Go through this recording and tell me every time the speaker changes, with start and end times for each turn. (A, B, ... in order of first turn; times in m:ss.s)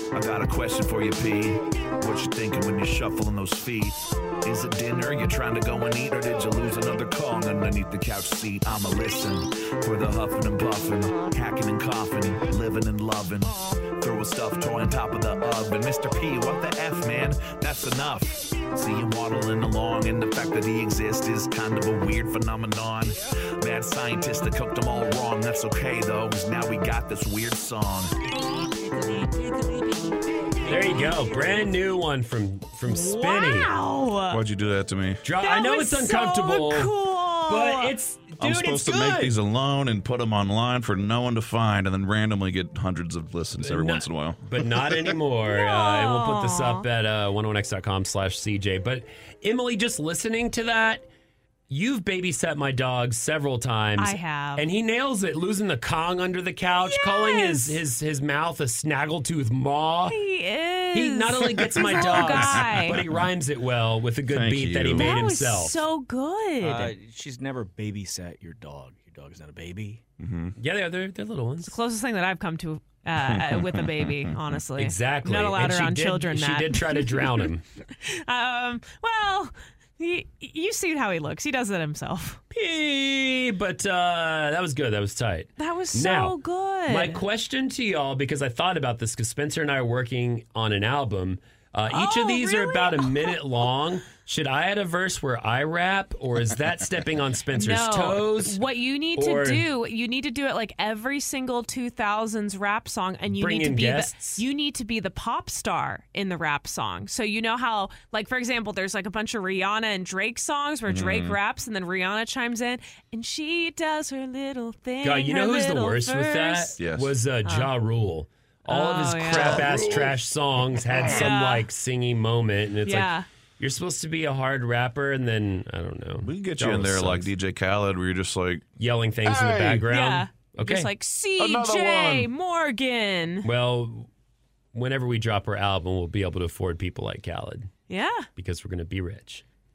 0:00.1-0:28.2 A
0:28.4-0:29.8 B
0:30.6-0:33.7 B
0:32.8-0:34.4 C
0:34.3-0:35.2 D
0:35.2-0:36.9 B
0:35.4-0:38.0 C
0:37.5-0:39.3 B
0:38.4-0:45.2 D
0:43.6-0:51.0 B
0:45.5-0:46.8 C
0:51.7-1:00.2 B
0:54.0-0:54.7 C
0:56.8-0:57.8 C
1:00.1-1:03.0 C
1:00.9-1:05.8 B
1:01.8-1:03.2 D
1:04.3-1:05.2 D
1:05.0-1:06.9 C
1:06.6-1:10.0 E
1:10.2-1:10.6 D
1:10.6-1:11.8 B
1:11.7-1:22.4 C
1:13.2-1:14.3 D
1:14.8-1:17.6 B
1:22.5-1:38.6 B
1:25.6-1:27.2 C
1:31.9-1:33.4 C
1:37.5-1:56.8 C
1:39.2-1:39.7 B
1:43.3-1:44.4 B
1:50.9-1:51.4 D
1:55.0-2:07.3 B
1:56.8-1:57.1 D
1:57.5-1:57.7 C
1:58.7-1:59.8 C
1:59.2-2:00.1 D
2:01.0-2:01.7 C
2:02.8-2:03.3 C
2:06.2-2:08.7 D
2:08.8-2:10.9 B
2:09.2-2:09.9 D
2:09.9-2:13.5 C
2:11.4-2:12.3 D
2:13.4-2:14.1 B
2:14.7-2:17.7 B
2:17.9-2:18.3 C
2:18.4-2:19.4 B